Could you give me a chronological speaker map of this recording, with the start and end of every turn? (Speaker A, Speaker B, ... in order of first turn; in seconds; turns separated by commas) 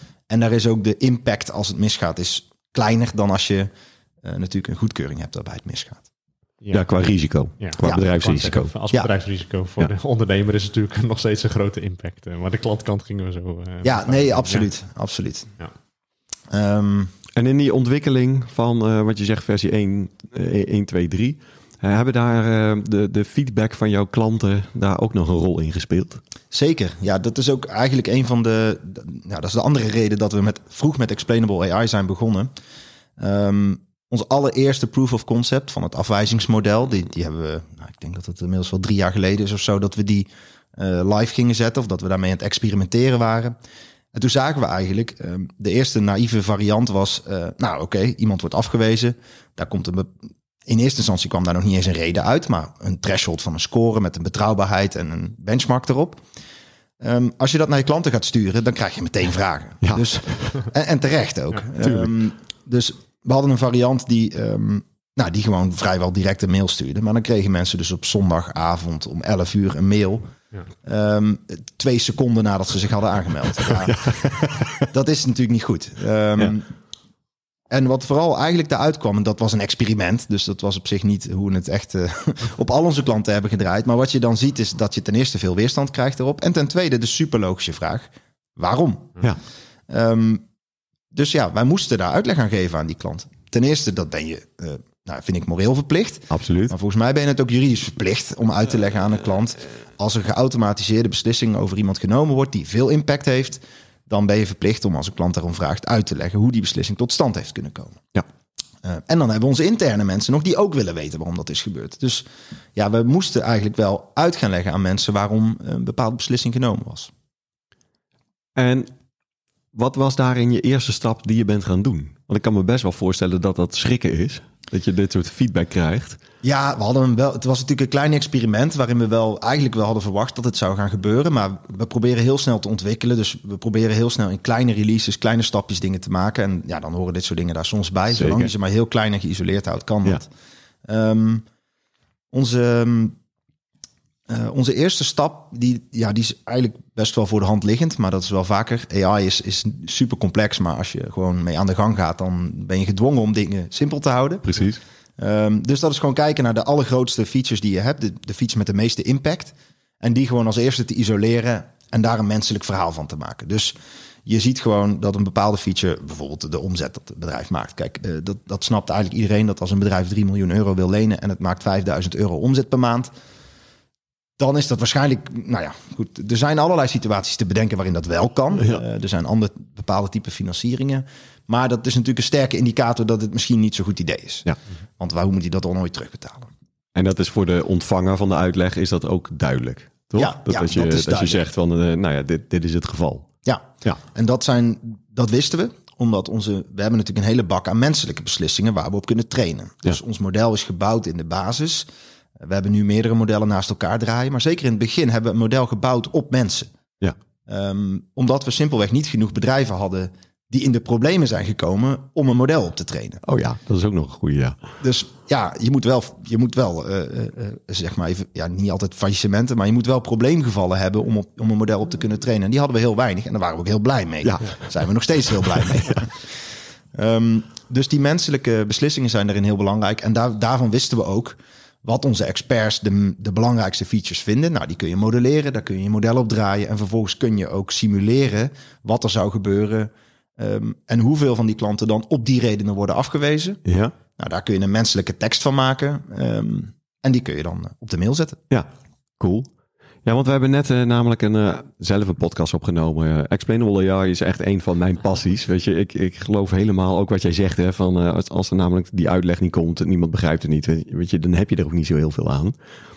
Speaker A: 0.3-3.7, Speaker A: 4.2-6.0, Speaker B: 6.6-6.9, Speaker C: 6.7-8.7, Speaker B: 7.5-14.7, Speaker A: 13.8-15.5, Speaker A: 16.5-17.1, Speaker C: 17.3-26.2, Speaker A: 26.5-32.5, Speaker A: 33.2-43.5, Speaker A: 44.1-50.1, Speaker A: 50.6-56.2, Speaker A: 57.0-70.3, Speaker C: 59.8-60.6, Speaker C: 61.8-62.1, Speaker A: 70.8-76.7, Speaker C: 73.6-74.9, Speaker A: 77.7-89.2, Speaker A: 89.9-90.4, Speaker A: 91.1-108.1, Speaker C: 96.3-96.7, Speaker A: 108.8-117.1, Speaker C: 118.5-118.9, Speaker C: 119.7-126.2, Speaker A: 126.4-140.3, Speaker C: 138.2-138.5, Speaker A: 140.8-141.4, Speaker A: 142.3-143.2, Speaker A: 144.3-154.5, Speaker C: 154.4-154.8, Speaker A: 155.2-173.1, Speaker A: 174.4-186.5, Speaker C: 178.6-178.8, Speaker C: 186.9-193.3, Speaker A: 190.2-191.4, Speaker A: 193.4-201.9, Speaker A: 202.4-206.7, Speaker A: 207.5-213.2, Speaker C: 213.2-214.6, Speaker A: 214.8-243.6, Speaker C: 224.2-224.7, Speaker C: 225.4-226.0, Speaker C: 243.6-243.9, Speaker A: 244.2-248.4, Speaker C: 248.5-249.5, Speaker C: 250.0-262.5